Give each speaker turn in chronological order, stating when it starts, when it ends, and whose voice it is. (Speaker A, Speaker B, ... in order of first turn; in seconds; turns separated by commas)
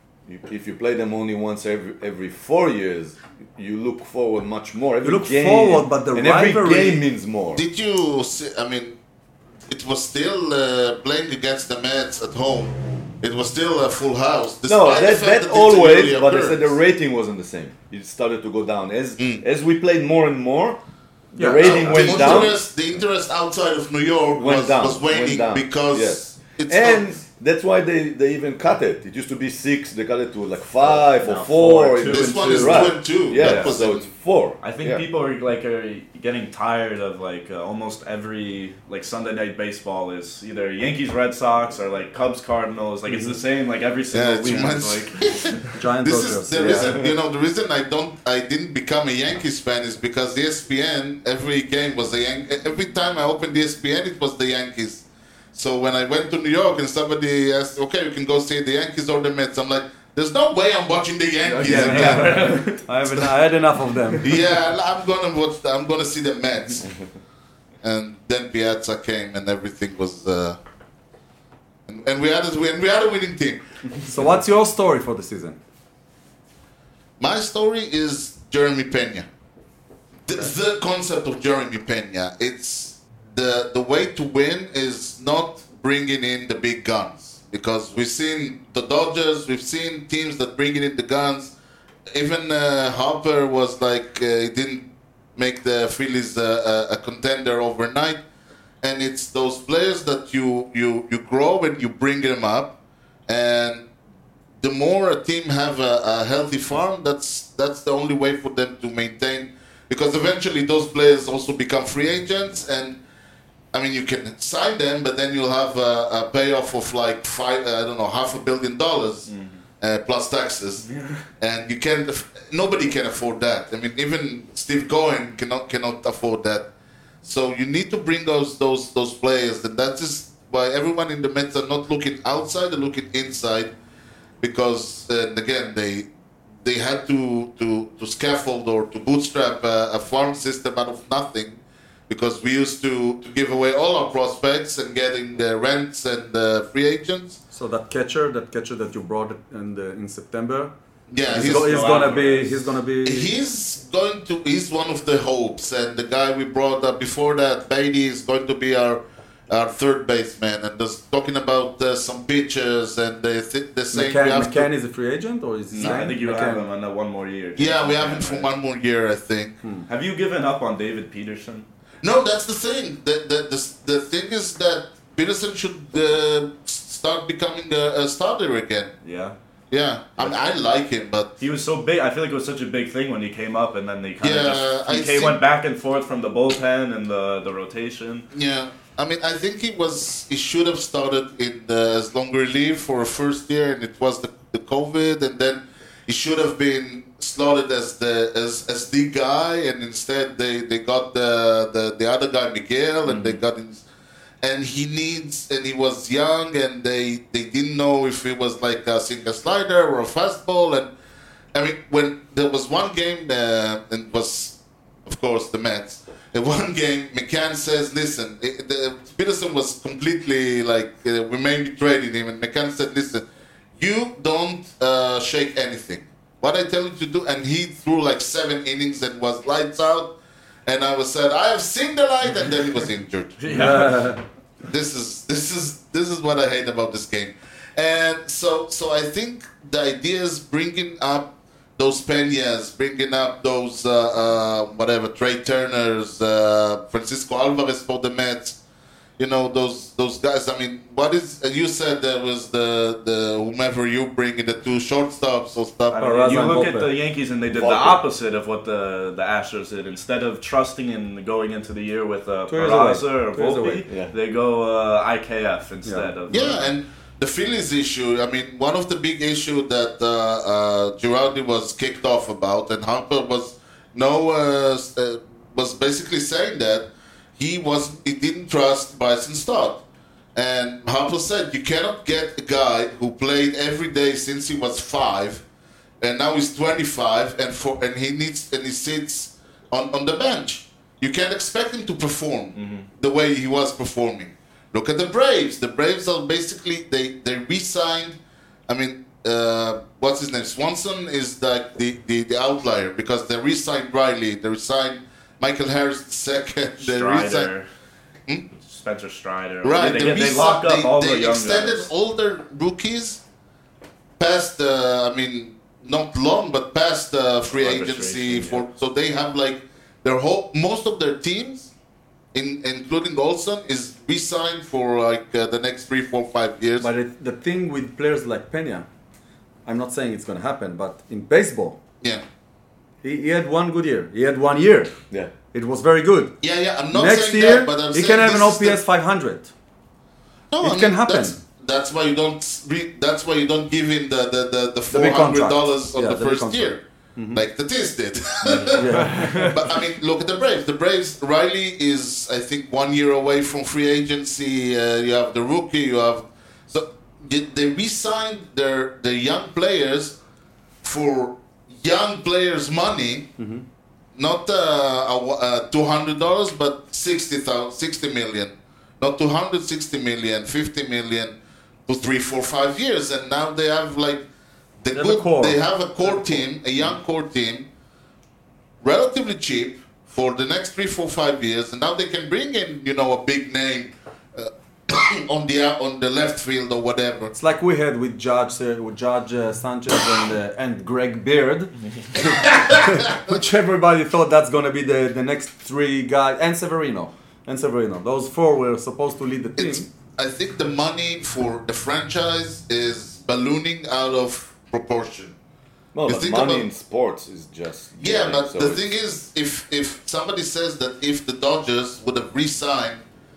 Speaker A: 0.3-7.6, Speaker B: 5.0-7.0, Speaker C: 7.5-9.0, Speaker C: 9.7-16.8, Speaker A: 14.7-20.8, Speaker C: 19.2-19.4, Speaker A: 21.3-22.6, Speaker B: 21.4-22.5, Speaker C: 21.6-27.2, Speaker A: 24.3-35.0, Speaker D: 30.8-33.8, Speaker C: 32.1-34.1, Speaker D: 34.6-45.7, Speaker B: 43.1-43.4, Speaker C: 44.1-62.6, Speaker B: 45.7-47.0, Speaker A: 46.6-47.1, Speaker B: 61.5-64.4, Speaker D: 61.6-62.8, Speaker C: 64.2-66.9, Speaker C: 67.8-70.6, Speaker C: 71.9-73.6, Speaker B: 74.0-75.6, Speaker C: 77.2-79.3, Speaker C: 80.2-91.5, Speaker C: 92.1-98.2, Speaker C: 98.8-102.8, Speaker C: 103.3-103.9, Speaker C: 104.6-113.0, Speaker C: 113.7-120.9, Speaker D: 119.3-119.6, Speaker C: 121.4-126.7, Speaker C: 127.2-133.7, Speaker C: 134.4-136.1, Speaker C: 136.6-147.4, Speaker B: 147.5-150.7, Speaker C: 151.1-152.1, Speaker B: 151.3-153.3, Speaker D: 151.3-152.7, Speaker C: 153.0-164.7, Speaker B: 163.9-166.6, Speaker D: 165.7-168.5, Speaker C: 167.6-169.6, Speaker D: 169.9-171.7, Speaker C: 172.0-178.9, Speaker D: 179.0-179.4, Speaker C: 179.7-181.3, Speaker D: 181.4-188.3, Speaker C: 184.2-185.4, Speaker C: 188.3-203.8, Speaker D: 203.1-203.4, Speaker C: 204.4-210.9, Speaker C: 211.5-223.2, Speaker C: 223.8-233.7, Speaker D: 233.4-234.1, Speaker B: 233.5-234.2, Speaker C: 234.6-248.6, Speaker C: 249.2-256.3, Speaker D: 255.9-266.7, Speaker B: 255.9-256.9, Speaker A: 257.5-258.0, Speaker B: 262.5-263.9, Speaker A: 263.9-264.1, Speaker B: 265.9-266.1, Speaker C: 266.3-279.8, Speaker C: 280.3-285.4, Speaker C: 286.0-307.5, Speaker D: 292.6-292.9, Speaker D: 306.8-307.7, Speaker D: 308.5-311.9, Speaker C: 309.6-313.2, Speaker C: 314.2-321.7, Speaker D: 317.5-318.6, Speaker C: 322.3-326.9, Speaker B: 326.8-328.9, Speaker B: 329.6-331.8, Speaker B: 333.0-334.9, Speaker B: 335.5-336.4, Speaker C: 336.4-338.8, Speaker B: 336.9-339.5, Speaker C: 340.5-360.2, Speaker B: 340.6-341.4, Speaker B: 344.9-347.4, Speaker B: 348.6-349.6, Speaker D: 349.0-349.5, Speaker C: 360.8-363.3, Speaker B: 363.4-363.6, Speaker C: 364.1-374.2, Speaker C: 374.8-377.7, Speaker B: 374.9-375.6, Speaker C: 378.8-387.3, Speaker B: 387.3-399.9, Speaker C: 392.2-393.4, Speaker C: 399.6-405.3, Speaker A: 405.9-408.9, Speaker C: 406.1-406.7, Speaker C: 408.0-413.0